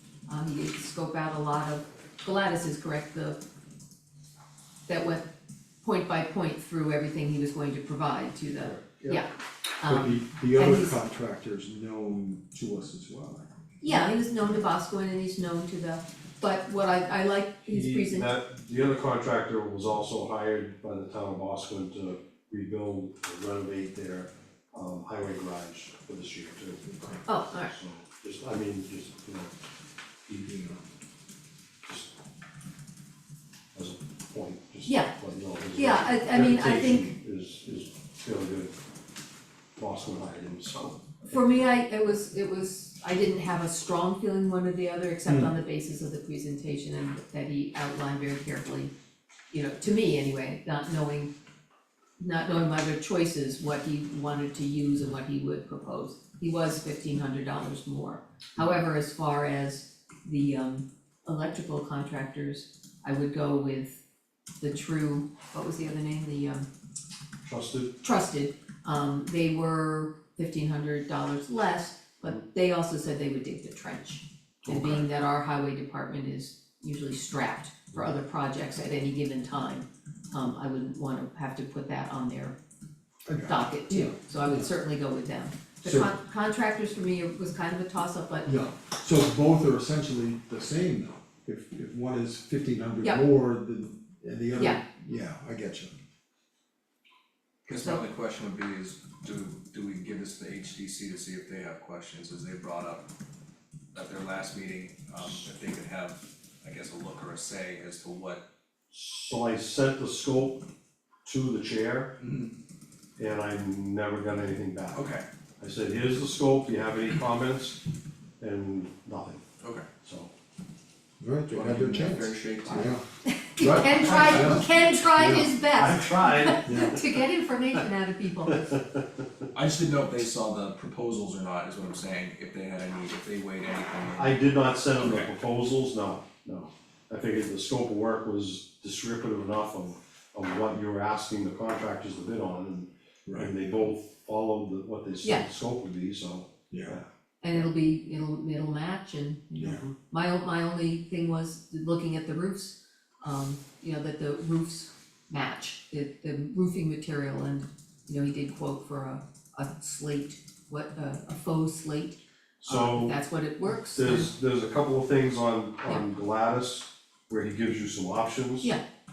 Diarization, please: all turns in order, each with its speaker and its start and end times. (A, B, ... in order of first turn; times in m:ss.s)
0:00.3-0:03.4 A
0:04.9-0:05.3 A
0:05.8-0:11.0 A
0:08.6-0:09.2 B
0:09.8-0:13.9 C
0:13.8-0:18.3 A
0:17.7-0:26.8 B
0:26.8-0:27.2 C
0:27.3-0:27.8 A
0:27.7-0:29.5 B
0:30.4-0:30.8 C
0:31.8-0:32.1 B
0:33.7-0:38.7 B
0:34.8-0:35.1 A
0:35.8-0:37.1 A
0:39.8-0:41.0 B
0:41.3-0:48.9 A
0:45.2-0:45.5 C
0:49.5-0:51.3 A
0:52.2-1:04.0 A
1:04.6-1:06.7 A
1:07.4-1:07.9 B
1:08.0-1:22.5 A
1:14.7-1:15.0 B
1:23.2-1:24.7 C
1:23.5-1:28.5 A
1:25.8-1:26.2 C
1:28.4-1:35.9 C
1:34.6-1:34.8 A
1:37.7-1:43.1 D
1:37.7-1:38.0 A
1:43.9-1:48.4 D
1:48.9-1:50.6 B
1:51.2-1:52.2 B
1:52.2-1:52.5 D
1:53.2-1:55.0 B
1:54.9-1:55.2 D
1:55.6-1:57.8 B
1:58.4-1:59.4 B
1:59.6-1:59.9 D
2:00.0-2:00.3 B
2:01.2-2:03.0 C
2:01.5-2:02.9 D
2:03.2-2:08.7 A
2:03.6-2:05.6 C
2:04.0-2:04.6 D
2:05.8-2:06.9 B
2:06.7-2:07.0 C
2:08.6-2:09.2 B
2:09.5-2:14.4 D
2:14.1-2:27.1 B
2:15.0-2:15.3 D
2:23.3-2:23.5 C
2:26.7-2:27.0 C
2:27.4-2:44.3 A
2:29.6-2:29.8 C
2:29.6-2:29.9 B
2:42.6-2:43.2 B
2:43.9-2:48.7 B